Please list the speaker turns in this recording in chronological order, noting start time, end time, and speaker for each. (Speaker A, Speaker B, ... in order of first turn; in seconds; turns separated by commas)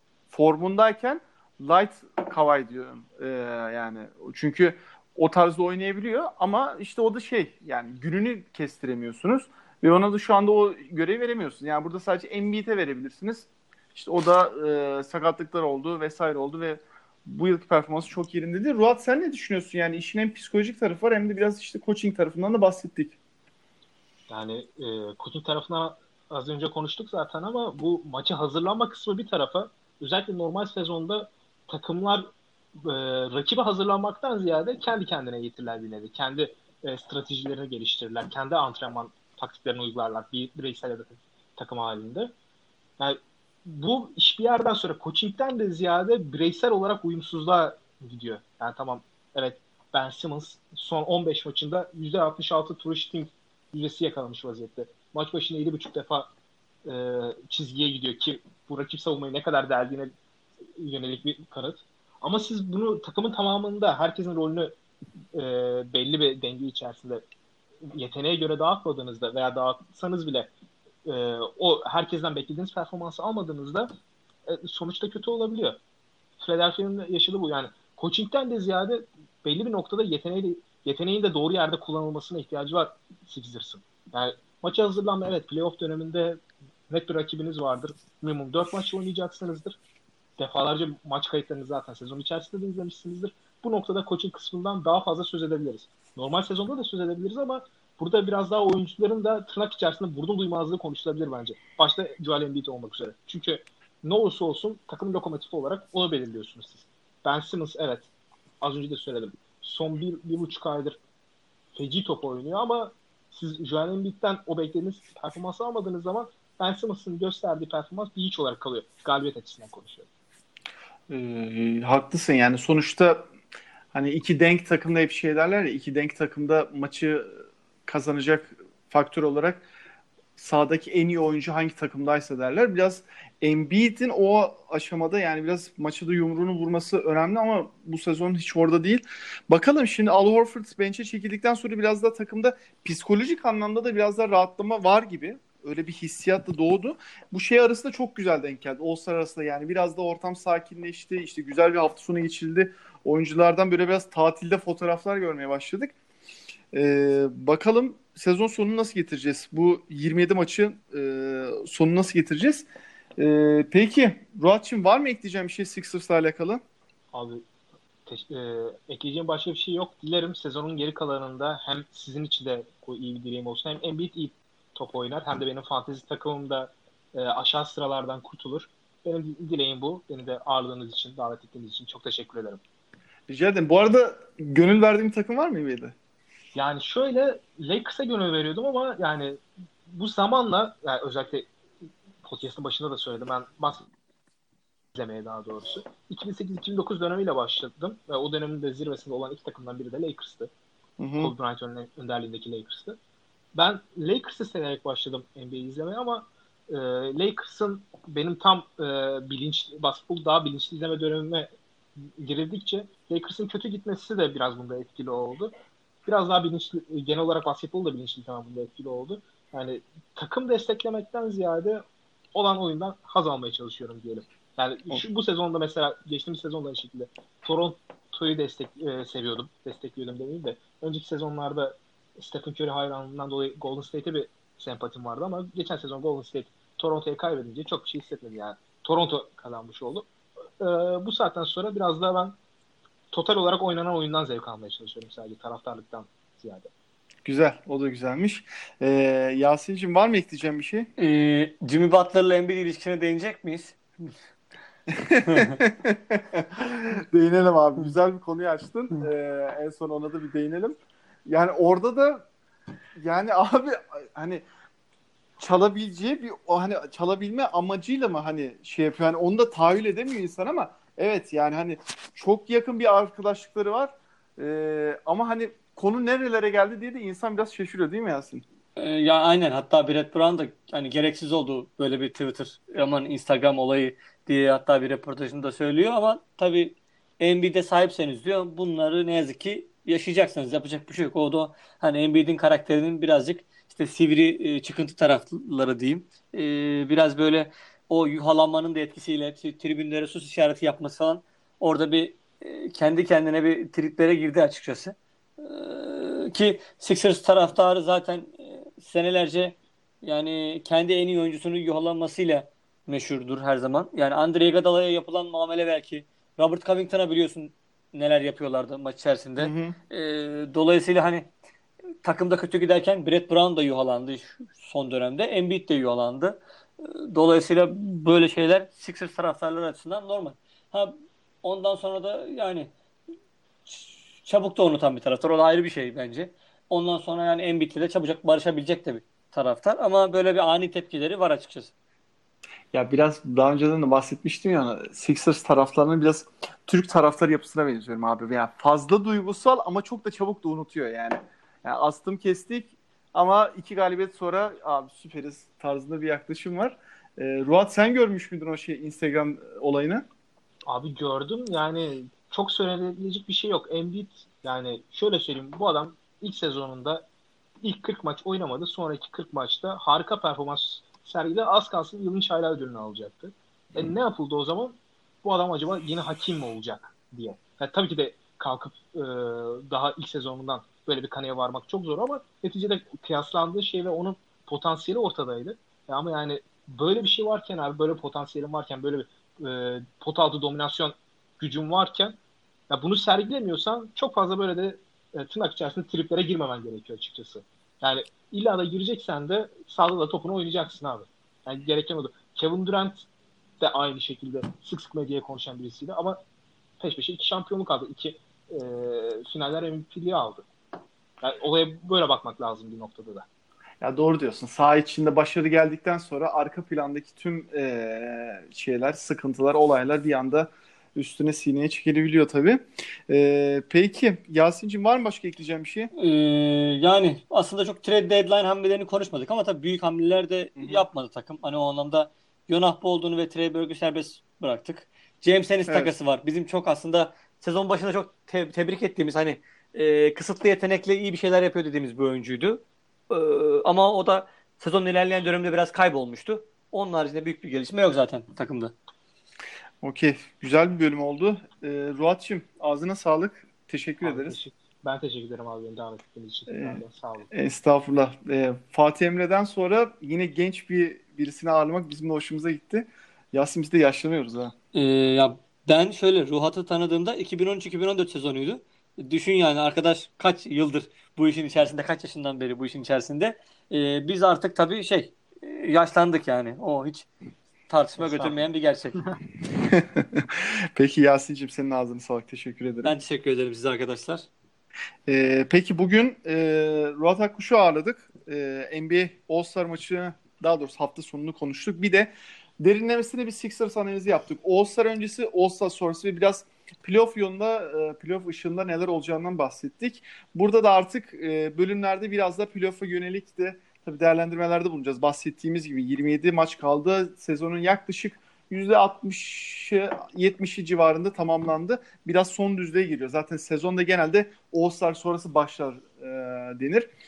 Speaker A: 0.3-23.1, Speaker B: 24.3-42.3, Speaker B: 43.0-56.3, Speaker B: 56.8-60.1, Speaker B: 60.8-64.7, Speaker B: 65.3-67.2, Speaker B: 67.8-70.5, Speaker B: 71.0-73.9, Speaker B: 74.5-75.8, Speaker B: 76.4-89.8, Speaker B: 90.4-111.0, Speaker B: 111.7-120.1, Speaker A: 121.1-123.3, Speaker A: 123.9-129.6, Speaker A: 130.4-155.9, Speaker A: 156.7-162.7, Speaker A: 163.2-166.6, Speaker B: 167.1-167.4, Speaker B: 168.1-182.6, Speaker A: 183.3-185.9, Speaker B: 186.5-191.5, Speaker B: 192.2-193.9, Speaker B: 194.9-200.5, Speaker A: 201.0-201.3, Speaker B: 201.2-203.0, Speaker B: 203.5-215.5, Speaker B: 216.0-240.1, Speaker B: 240.6-242.4, Speaker B: 243.1-246.7, Speaker A: 247.2-250.9, Speaker C: 251.0-254.1, Speaker A: 254.9-262.2, Speaker C: 255.3-255.6, Speaker A: 263.0-264.4, Speaker A: 265.4-278.4, Speaker C: 278.8-321.3, Speaker A: 319.4-319.8, Speaker C: 322.0-332.7, Speaker C: 333.7-341.7, Speaker A: 342.7-360.1, Speaker B: 360.7-367.1, Speaker B: 367.6-392.2, Speaker B: 392.7-403.1, Speaker B: 403.6-406.2, Speaker B: 406.8-410.5, Speaker B: 411.2-413.3, Speaker A: 413.8-425.9, Speaker C: 425.9-448.7, Speaker A: 430.6-430.8, Speaker A: 435.7-435.9, Speaker A: 449.8-454.4, Speaker B: 454.0-457.3, Speaker A: 456.5-464.5, Speaker C: 464.7-477.1, Speaker C: 477.7-479.0, Speaker B: 478.0-478.4, Speaker A: 479.6-483.0, Speaker C: 482.8-484.3, Speaker A: 485.1-492.1, Speaker A: 492.6-516.9